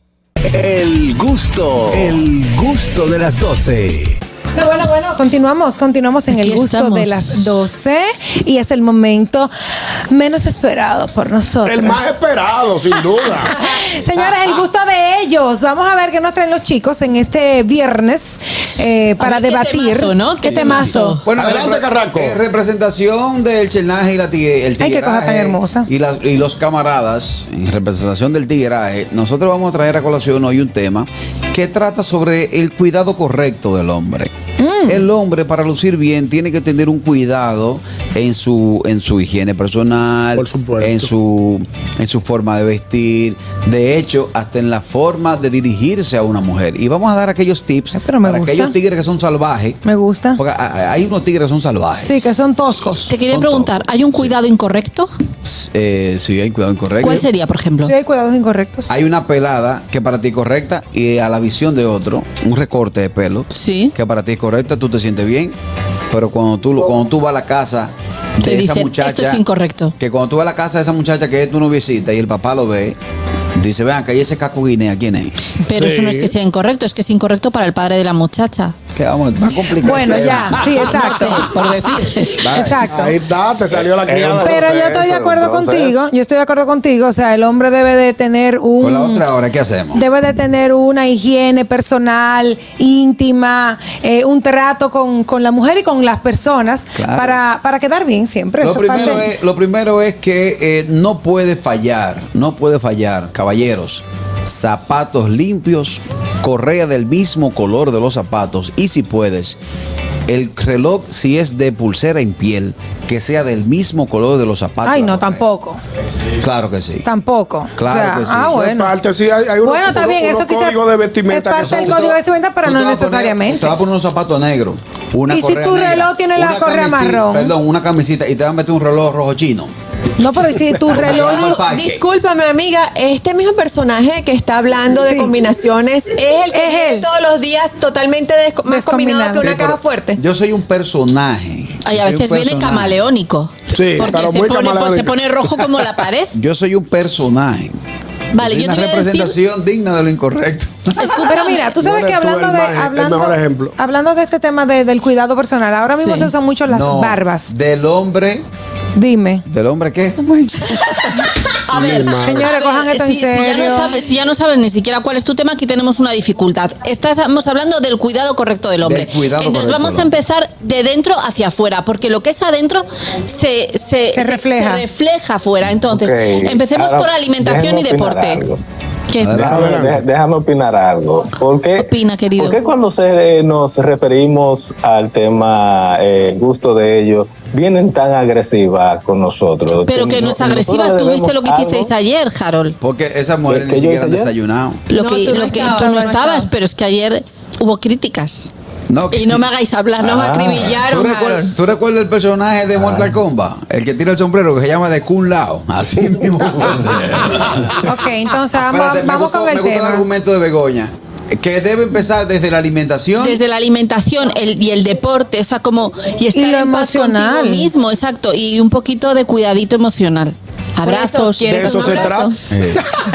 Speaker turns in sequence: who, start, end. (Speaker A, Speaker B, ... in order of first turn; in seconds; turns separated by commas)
Speaker A: 0.4-4.2, Speaker B: 4.5-9.5, Speaker C: 6.3-7.6, Speaker B: 10.1-12.2, Speaker D: 11.6-13.5, Speaker B: 13.5-21.2, Speaker C: 19.2-21.2, Speaker E: 20.6-34.3, Speaker D: 21.3-22.4, Speaker B: 24.8-25.9, Speaker B: 34.6-35.0, Speaker E: 34.9-49.8, Speaker D: 40.4-41.1, Speaker B: 47.9-48.7, Speaker B: 49.8-50.4, Speaker E: 50.4-52.2, Speaker B: 52.0-53.1, Speaker C: 53.1-55.1, Speaker E: 53.3-54.3, Speaker E: 55.4-57.3, Speaker C: 57.0-57.9, Speaker B: 57.8-58.9, Speaker E: 58.9-65.5, Speaker C: 63.5-63.9, Speaker E: 66.1-69.4, Speaker C: 68.4-69.9, Speaker E: 70.0-73.0, Speaker E: 73.5-75.3, Speaker C: 75.6-78.7, Speaker D: 75.7-76.3, Speaker E: 78.9-80.8, Speaker B: 79.8-81.5, Speaker C: 80.9-82.6, Speaker D: 82.4-85.0, Speaker B: 82.5-83.1, Speaker E: 82.8-83.0, Speaker F: 84.0-85.9, Speaker B: 84.4-89.2, Speaker E: 88.8-90.0, Speaker B: 89.9-99.3, Speaker E: 97.0-97.4, Speaker E: 98.6-109.6, Speaker E: 110.3-115.4, Speaker B: 114.8-115.8, Speaker E: 116.4-117.0, Speaker B: 117.0-118.9, Speaker E: 117.8-118.6, Speaker D: 118.5-122.2, Speaker B: 119.6-123.7, Speaker E: 121.7-122.0, Speaker E: 122.6-129.7, Speaker B: 125.3-127.5, Speaker B: 130.2-131.5, Speaker E: 130.9-132.0, Speaker G: 131.0-140.2, Speaker B: 134.9-135.3, Speaker B: 136.5-137.1, Speaker B: 138.7-139.6, Speaker E: 139.4-143.0, Speaker C: 141.8-146.3, Speaker D: 143.7-145.2, Speaker E: 146.3-147.8, Speaker C: 148.3-149.3, Speaker E: 148.3-151.2, Speaker C: 151.0-151.7, Speaker B: 151.2-157.5, Speaker D: 151.7-153.7, Speaker C: 155.9-156.3, Speaker E: 156.7-158.4, Speaker B: 158.9-159.4, Speaker E: 159.5-161.0, Speaker C: 161.7-178.4, Speaker D: 161.7-162.5, Speaker B: 162.2-163.9, Speaker E: 168.8-170.1, Speaker B: 174.1-174.8, Speaker F: 175.9-178.6, Speaker C: 179.1-179.6, Speaker E: 179.2-179.9, Speaker F: 179.3-191.9, Speaker D: 179.5-180.0, Speaker C: 181.8-182.6, Speaker C: 189.8-192.8, Speaker E: 192.8-194.8, Speaker F: 193.5-194.3, Speaker C: 194.9-198.5, Speaker G: 194.9-196.5, Speaker E: 198.9-199.4, Speaker C: 199.1-200.8, Speaker F: 200.0-200.7, Speaker G: 200.0-201.5, Speaker E: 200.8-207.9, Speaker F: 202.8-203.1, Speaker B: 207.8-210.1, Speaker E: 208.5-213.4, Speaker C: 213.2-222.3, Speaker B: 216.3-217.7, Speaker G: 220.8-222.3, Speaker D: 221.5-222.3, Speaker E: 222.5-222.9